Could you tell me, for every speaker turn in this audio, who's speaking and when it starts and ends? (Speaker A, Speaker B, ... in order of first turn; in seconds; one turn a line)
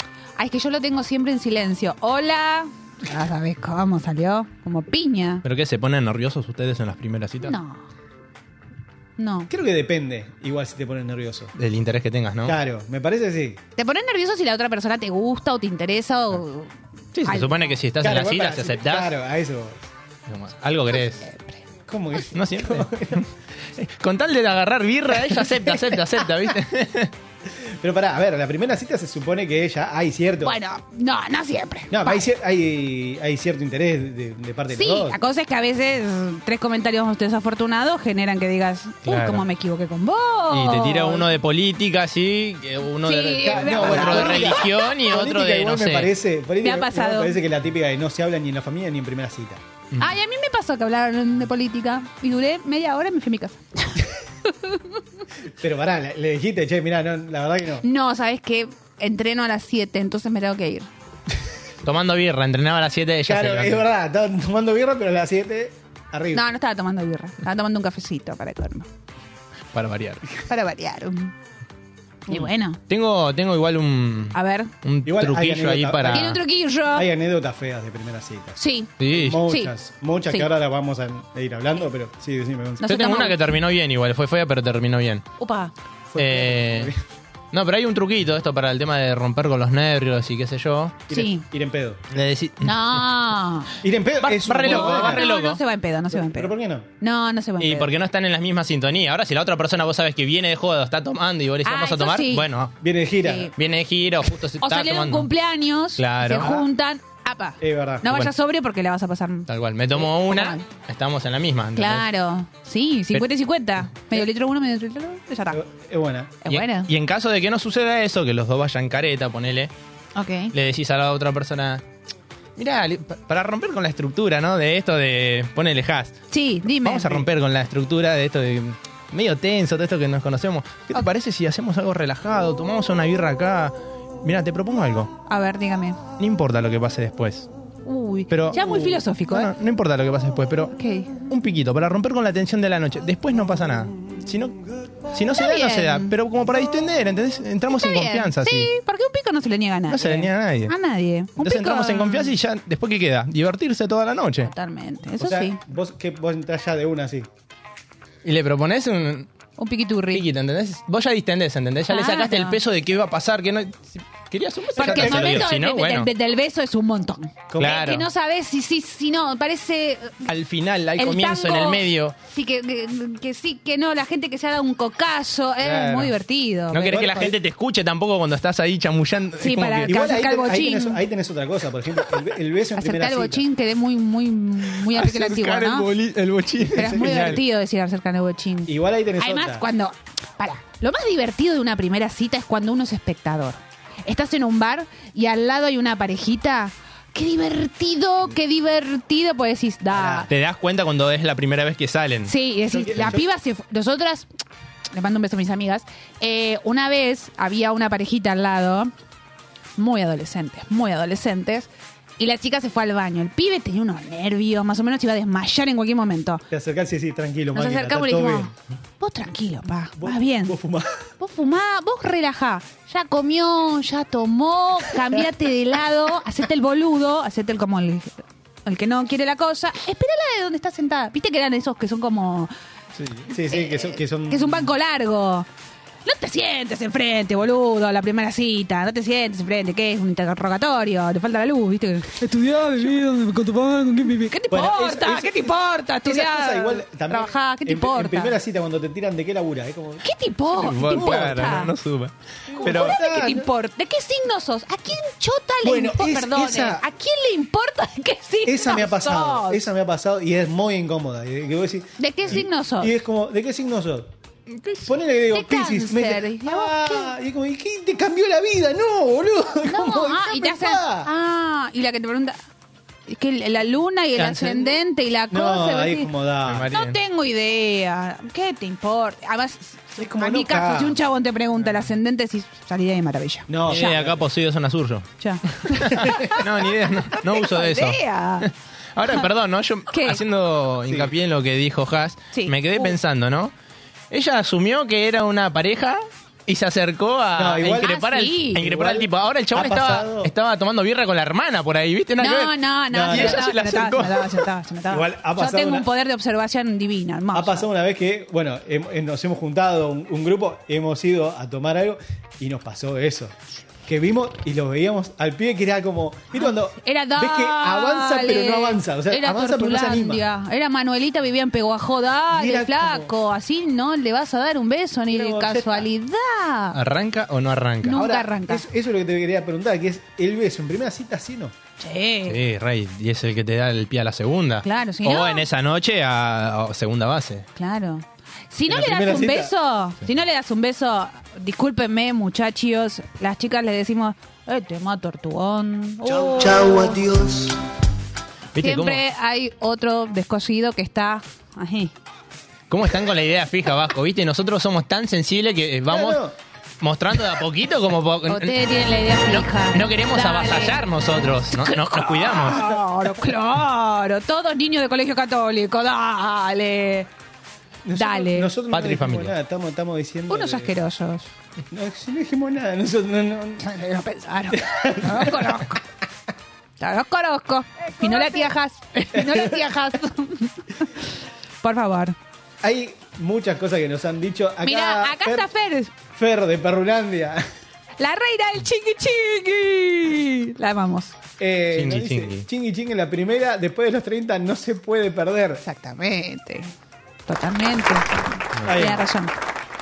Speaker A: 0.4-5.4
Speaker B: 5.5-7.6
Speaker A: 7.4-7.8
Speaker A: 9.2-9.5
Speaker C: 9.5-11.5
Speaker B: 11.6-12.6
Speaker C: 12.4-13.6
Speaker A: 13.8-16.7
Speaker B: 17.1-19.1
Speaker A: 17.3-17.6
Speaker C: 18.0-19.8
Speaker B: 20.3-21.2
Speaker A: 21.1-21.6
Speaker C: 21.9-23.2
Speaker B: 22.3-27.1
Speaker C: 25.3-26.0
Speaker C: 27.5-30.6
Speaker A: 30.4-32.2
Speaker C: 31.9-35.2
Speaker A: 34.7-41.3
Speaker B: 39.0-39.5
Speaker B: 40.5-46.1
Speaker A: 43.0-44.9
Speaker C: 43.4-49.6
Speaker A: 46.6-47.4
Speaker A: 50.0-55.0
Speaker C: 55.6-57.9
Speaker A: 57.8-60.9
Speaker B: 61.8-63.9
Speaker C: 63.3-66.5
Speaker A: 66.3-68.9
Speaker B: 69.7-70.3
Speaker A: 70.5-71.3
Speaker A: 72.3-72.8
Speaker B: 72.9-76.4
Speaker A: 74.3-74.7
Speaker C: 75.0-82.8
Speaker A: 76.1-77.1
Speaker A: 78.6-78.9
Speaker B: 79.0-79.4
Speaker A: 79.5-79.7
Speaker A: 82.8-83.4
Speaker B: 82.9-85.3
Speaker A: 85.4-85.7
Speaker C: 86.1-87.0
Speaker B: 86.2-86.9
Speaker B: 87.5-91.0
Speaker C: 91.1-92.0
Speaker A: 91.1-91.5
Speaker B: 92.1-93.1
Speaker A: 92.6-93.7
Speaker C: 93.8-95.3
Speaker B: 94.2-95.6
Speaker A: 94.3-97.9
Speaker C: 96.1-96.9
Speaker B: 97.6-102.8
Speaker A: 101.7-102.5
Speaker C: 102.8-103.5
Speaker A: 103.2-103.5
Speaker B: 103.5-105.3
Speaker A: 104.6-110.7
Speaker B: 106.0-106.6
Speaker C: 106.4-106.7
Speaker C: 107.6-108.1
Speaker B: 109.5-112.1
Speaker A: 111.8-115.6
Speaker C: 115.5-116.4
Speaker A: 116.4-116.9
Speaker B: 116.5-119.7
Speaker A: 120.2-120.5
Speaker B: 120.5-121.8
Speaker B: 122.6-126.2
Speaker A: 126.3-127.2
Speaker B: 126.8-135.1
Speaker A: 135.3-136.0
Speaker B: 136.2-137.5
Speaker A: 137.9-139.5
Speaker B: 138.3-140.7
Speaker A: 140.8-141.1
Speaker B: 141.3-148.7
Speaker A: 145.3-146.1
Speaker A: 147.7-152.3
Speaker B: 149.9-150.8
Speaker B: 151.4-154.5
Speaker A: 154.4-155.6
Speaker C: 155.2-157.3
Speaker B: 158.2-159.3
Speaker A: 159.6-160.2
Speaker B: 160.1-166.1
Speaker A: 161.9-162.6
Speaker A: 164.8-170.3
Speaker C: 164.8-165.5
Speaker C: 167.5-167.8
Speaker B: 167.6-168.1
Speaker B: 170.3-172.2
Speaker A: 171.0-177.1
Speaker B: 175.6-176.1
Speaker B: 176.7-179.9
Speaker C: 176.9-177.3
Speaker A: 179.4-181.0
Speaker C: 179.9-183.5
Speaker A: 182.8-185.9
Speaker B: 184.8-187.4
Speaker A: 186.7-200.3
Speaker C: 186.7-187.4
Speaker C: 188.7-189.7
Speaker C: 199.9-200.3
Speaker B: 200.3-202.3
Speaker A: 202.3-204.3
Speaker C: 202.7-203.2
Speaker A: 204.9-208.9
Speaker A: 209.8-216.4
Speaker C: 216.5-218.5
Speaker A: 217.6-220.6
Speaker C: 220.0-221.1
Speaker A: 221.2-232.5
Speaker C: 233.0-234.7
Speaker A: 233.5-235.5
Speaker A: 236.1-248.4
Speaker C: 244.5-250.1
Speaker A: 250.0-251.7
Speaker B: 250.6-253.0
Speaker C: 250.9-251.5
Speaker C: 252.5-253.5
Speaker A: 252.6-259.7
Speaker C: 255.6-256.9
Speaker C: 258.4-264.1
Speaker A: 262.0-262.9
Speaker B: 264.5-264.9
Speaker C: 264.9-271.1
Speaker A: 265.3-267.1
Speaker A: 269.7-272.4
Speaker A: 273.1-276.1
Speaker C: 274.3-274.7
Speaker C: 275.3-276.7
Speaker B: 276.4-277.0
Speaker A: 276.7-284.0
Speaker C: 280.0-281.0
Speaker C: 283.5-284.2
Speaker B: 283.7-293.5
Speaker A: 285.2-286.5
Speaker A: 287.1-288.5
Speaker A: 289.9-290.2
Speaker C: 290.9-291.1
Speaker A: 292.3-292.9
Speaker B: 294.1-304.5
Speaker C: 297.4-297.9
Speaker A: 297.7-298.6
Speaker C: 298.6-300.3
Speaker A: 302.2-307.7
Speaker C: 302.9-303.5
Speaker C: 304.9-305.9
Speaker C: 307.3-313.4
Speaker C: 313.9-320.3
Speaker A: 316.3-326.8
Speaker C: 322.3-323.1
Speaker C: 325.1-325.9
Speaker B: 326.7-328.1
Speaker A: 327.8-328.6
Speaker C: 327.9-331.5
Speaker A: 331.8-332.4
Speaker B: 332.3-337.5
Speaker A: 334.6-335.4
Speaker A: 337.6-347.0
Speaker C: 338.7-339.5
Speaker C: 346.3-347.4
Speaker B: 348.5-349.0
Speaker A: 348.6-351.9
Speaker B: 352.7-356.3
Speaker C: 355.9-356.4
Speaker B: 356.8-362.7
Speaker A: 358.3-360.8
Speaker A: 361.5-367.1
Speaker C: 367.9-370.7
Speaker A: 367.9-368.5
Speaker B: 368.7-369.3
Speaker A: 370.3-371.3
Speaker C: 371.7-373.7
Speaker A: 373.6-375.8
Speaker C: 374.5-375.6
Speaker A: 376.8-382.2
Speaker C: 378.0-378.4
Speaker C: 379.1-379.8
Speaker C: 382.6-385.5
Speaker A: 384.6-385.9
Speaker C: 386.1-387.4
Speaker A: 388.0-391.1
Speaker C: 391.4-395.6
Speaker B: 391.7-392.5
Speaker A: 395.6-396.7
Speaker A: 397.3-399.4
Speaker B: 398.6-398.8
Speaker C: 398.6-399.1